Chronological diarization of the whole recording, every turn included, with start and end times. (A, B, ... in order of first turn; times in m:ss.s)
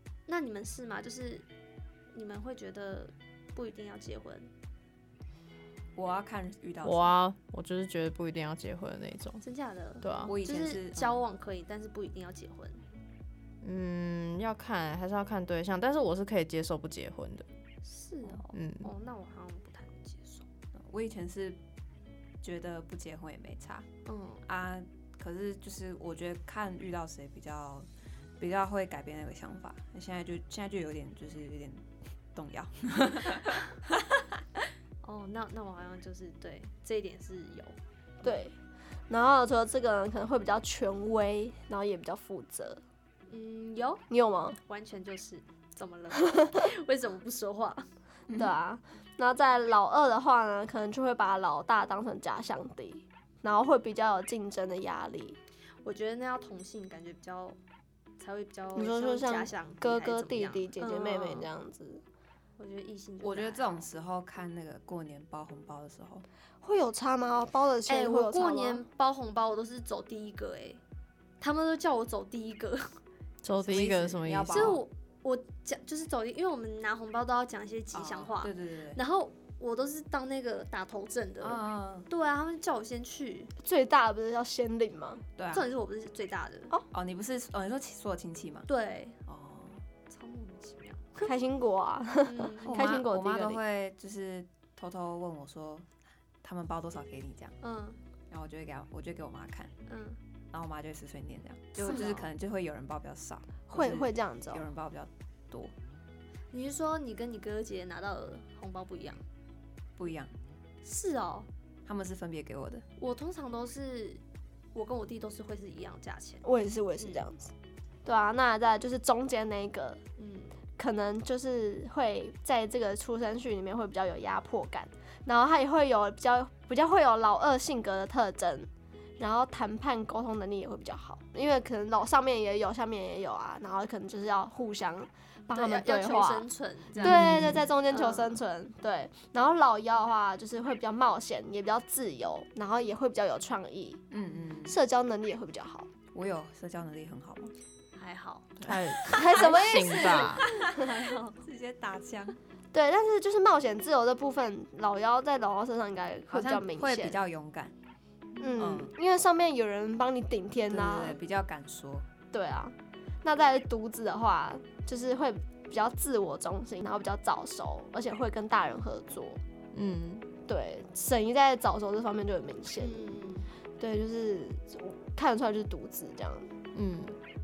0:00.3-0:01.4 A
0:02.1-0:04.5 A
0:05.9-0:07.1 B
0:06.8-0:09.4 C
0:09.4-0:12.8 A
0:10.0-0:10.3 C
0:10.3-0:11.2 B
0:13.6-0:17.4 C
0:17.8-0:20.4 A
0:18.5-0:18.9 C
0:20.8-0:21.6 B
0:22.4-0:23.8 B
0:24.0-0:24.4 A
0:24.4-0:27.9 B
0:28.4-0:34.2 B
0:35.0-0:38.4 A
0:38.2-0:38.5 D
0:39.1-0:42.8 D
0:43.3-0:44.0 A
0:44.1-0:44.6 D
0:44.6-0:47.9 A
0:48.3-0:48.5 B
0:48.3-0:55.4 D
0:55.8-0:57.6 A
0:58.2-1:01.5 A
0:58.7-1:02.0 D
1:02.6-1:03.8 A
1:03.2-1:06.2 B
1:06.6-1:08.8 D
1:07.9-1:10.8 A
1:11.4-1:12.9 A
1:13.4-1:14.8 C
1:13.6-1:14.8 B
1:14.5-1:23.5 A
1:17.9-1:19.0 B
1:21.4-1:22.1 B
1:23.6-1:25.2 D
1:25.4-1:25.7 B
1:25.5-1:26.7 A
1:26.9-1:28.7 B
1:28.7-1:29.2 A
1:29.3-1:29.8 B
1:30.1-1:31.3 A
1:31.2-1:33.6 D
1:32.2-1:33.0 A
1:32.6-1:35.9 B
1:36.4-1:37.6 B
1:37.6-1:38.0 A
1:38.3-1:39.7 B
1:39.9-1:40.2 A
1:40.5-1:45.7 B
1:41.8-1:42.2 A
1:43.7-1:44.6 D
1:46.5-1:49.2 A
1:50.0-1:50.3 B
1:50.8-1:51.5 A
1:51.8-1:52.8 B
1:53.0-1:54.2 A
1:54.7-1:56.4 A
1:56.4-1:57.5 D
1:57.0-1:57.2 A
1:58.0-2:00.0 D
2:00.2-2:00.5 A
2:00.8-2:16.5 D
2:15.5-2:17.2 A
2:17.0-2:17.6 B
2:17.0-2:17.6 C
2:17.0-2:24.0 D
2:17.9-2:18.3 A
2:24.1-2:24.8 B
2:24.6-2:25.9 D
2:26.1-2:27.5 B
2:28.0-2:31.4 A
2:28.6-2:30.4 C
2:29.1-2:30.3 D
2:29.4-2:30.9 B
2:31.4-2:32.4 B
2:32.7-2:37.2 D
2:36.3-2:37.7 B
2:38.4-2:41.2 D
2:38.6-2:38.9 B
2:40.7-2:42.1 B
2:42.3-2:49.4 D
2:49.7-2:50.2 C
2:50.5-2:53.2 D
2:52.8-2:53.5 A
2:53.8-2:56.5 D
2:56.7-2:57.2 C